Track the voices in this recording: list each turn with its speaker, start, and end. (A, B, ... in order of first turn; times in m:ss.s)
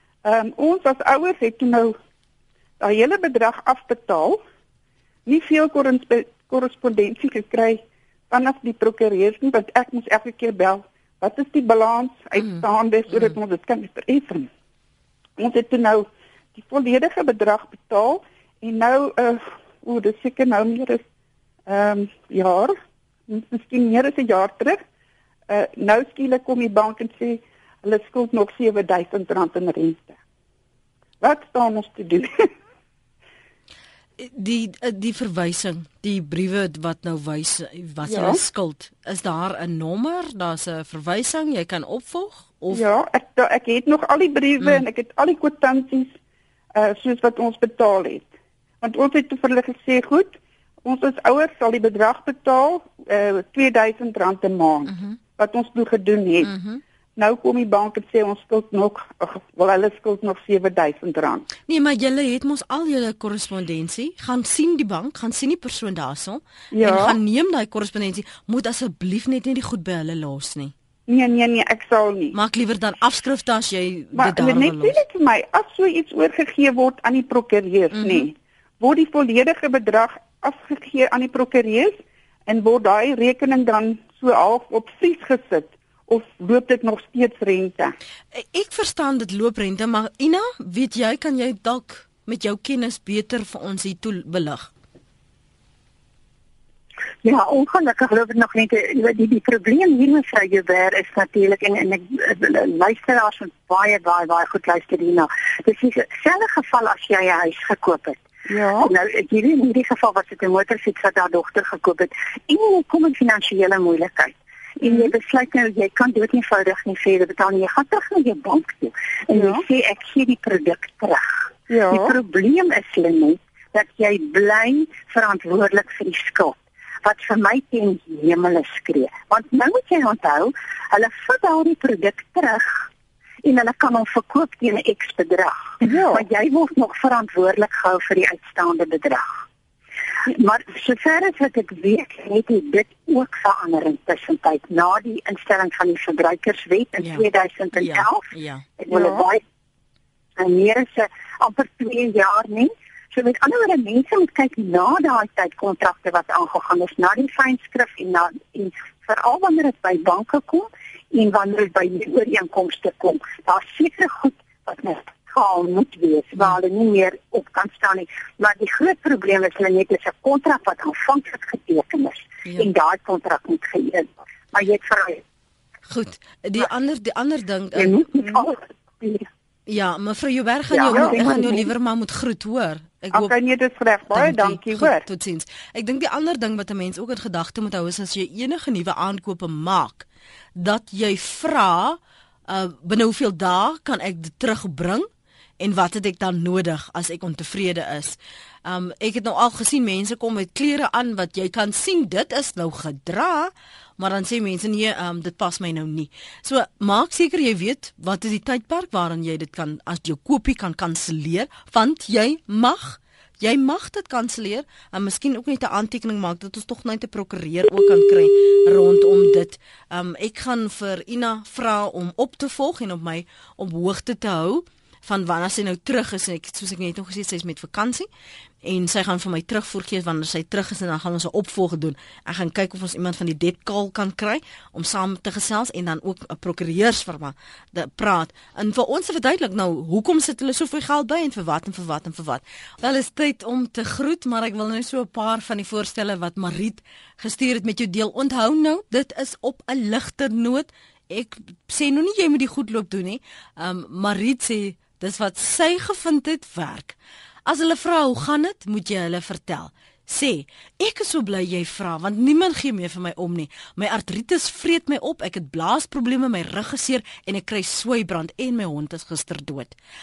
0:00.2-0:02.0 A
0:02.8-0:04.4 A
0:05.3-0:14.5 A
0:15.4-0:21.0 A
0:21.7-0:24.8 A
0:25.5-0:30.2 A
0:31.2-0:32.5 A
0:34.2-0:42.9 B
0:38.0-0:38.4 A
0:42.7-0:46.2 A
0:46.7-0:48.3 A
0:48.8-0:56.6 A
0:54.9-0:55.2 B
0:56.4-0:56.8 B
0:57.2-1:01.5 A
1:01.7-1:10.7 B
1:06.7-1:07.2 A
1:11.1-1:12.4 A
1:12.3-1:15.0 B
1:14.2-1:28.0 A
1:17.9-1:18.3 B
1:28.3-1:34.7 B
1:37.2-1:48.2 C
1:48.5-1:48.9 A
1:48.8-2:01.4 C
1:54.8-1:55.1 A
1:59.3-1:59.6 A
2:01.7-2:02.2 A
2:01.9-2:12.9 C
2:13.4-2:19.3 C
2:15.8-2:16.2 A
2:20.2-2:29.4 C
2:27.0-2:28.7 B
2:28.9-2:29.3 A
2:30.4-2:55.2 C
2:55.9-2:58.0 B
2:57.8-2:59.3 C
2:59.7-3:03.4 B
3:00.7-3:01.6 C
3:00.8-3:01.6 A
3:03.1-3:05.0 A
3:04.1-3:15.1 B
3:15.6-3:48.1 B
3:48.6-4:29.8 B